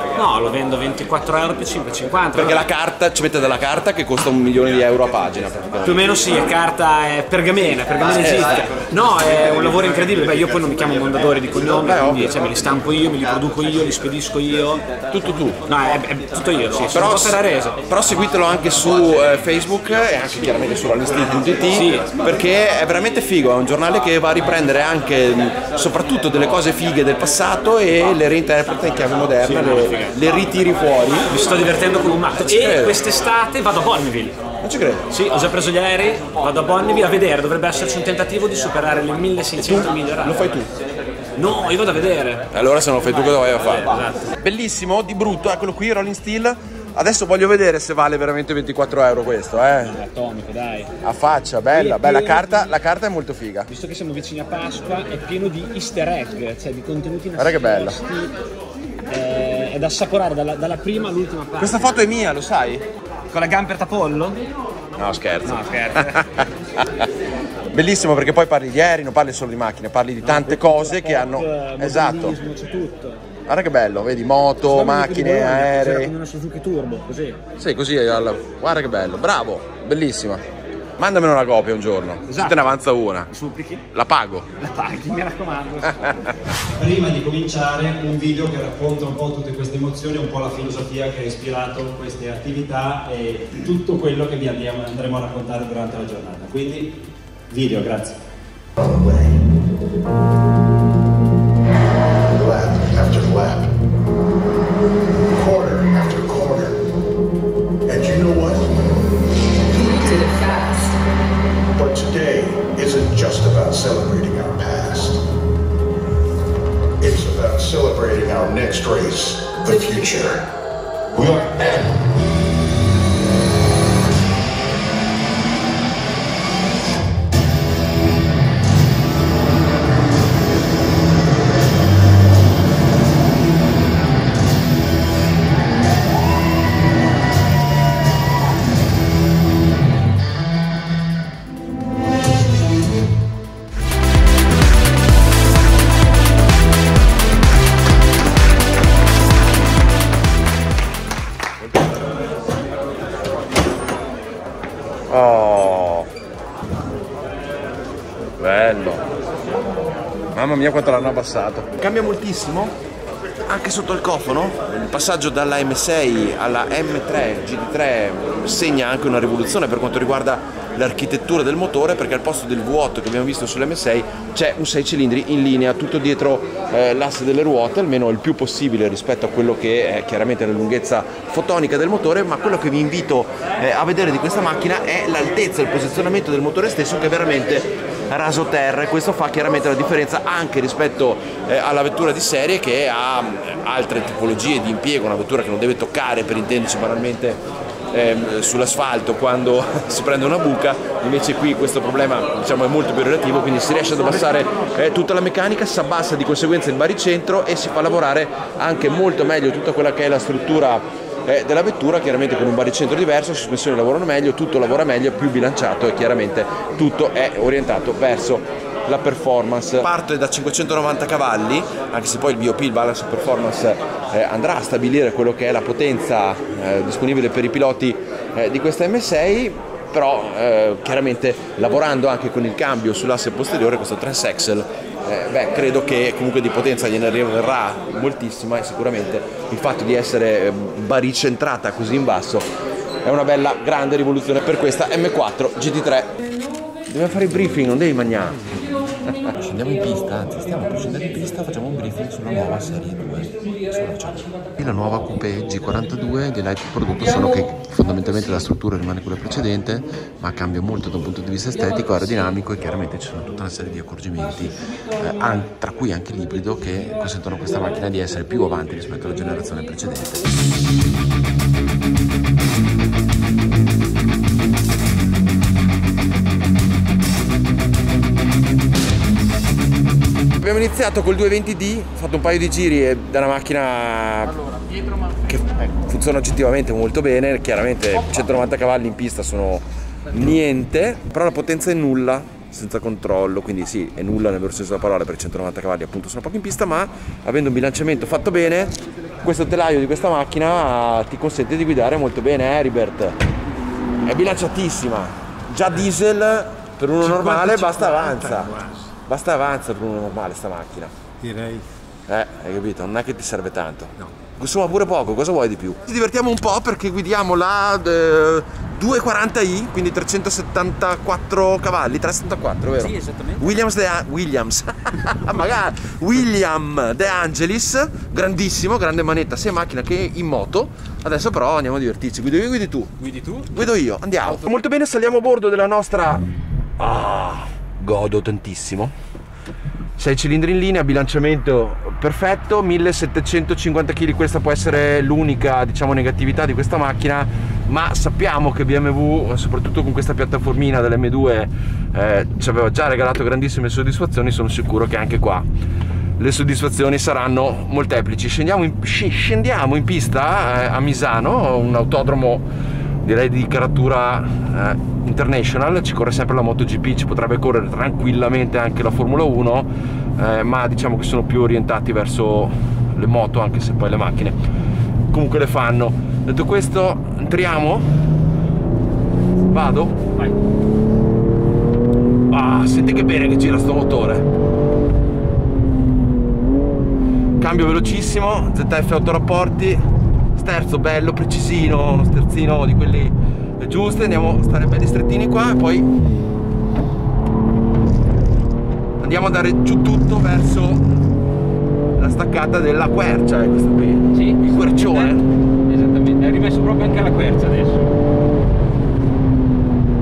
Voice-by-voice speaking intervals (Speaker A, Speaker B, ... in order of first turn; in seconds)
Speaker A: 0.1-2.7, 5.8-14.8, 15.7-17.8, 21.7-22.1, 29.4-30.2, 31.3-34.4, 35.1-40.6, 41.4-42.5, 43.7-44.3, 49.9-50.9, 51.7-52.7, 53.7-58.4, 59.1-62.0, 63.3-64.4, 65.5-66.2, 70.2-73.2, 74.6-77.4, 82.3-82.8, 83.3-83.9, 84.6-86.3, 307.0-308.9, 311.2-311.6, 322.8-323.6, 333.0-333.5
Speaker B: 2.3-6.2, 8.0-8.8, 11.6-12.5, 15.1-15.6, 16.9-31.3, 32.4-33.1, 34.6-35.1, 39.6-40.7, 42.5-50.0, 51.0-53.7, 57.4-58.0, 61.6-62.8, 65.0-67.1, 67.7-72.4, 73.5-76.2, 77.6-80.4, 81.0-83.3, 83.9-84.5, 155.1-156.1, 158.4-159.0, 160.3-162.8, 163.5-242.5, 243.0-246.1, 246.9-270.2, 280.4-284.5, 285.2-303.2, 304.0-308.5, 309.1-310.9, 312.1-336.3, 336.8-338.9, 340.0-355.5, 356.2-362.4, 363.0-374.4, 375.1-377.9, 379.5-380.1, 382.3-384.2, 387.4-395.9, 399.0-400.9, 402.0-405.3
Speaker C: 86.8-97.0, 97.5-98.2
Speaker D: 98.8-99.5, 102.3-103.8, 105.3-106.8, 107.9-109.1, 109.6-110.9, 111.7-115.2, 117.0-120.4, 121.1-122.0
Speaker E: 404.1-405.1, 405.7-407.9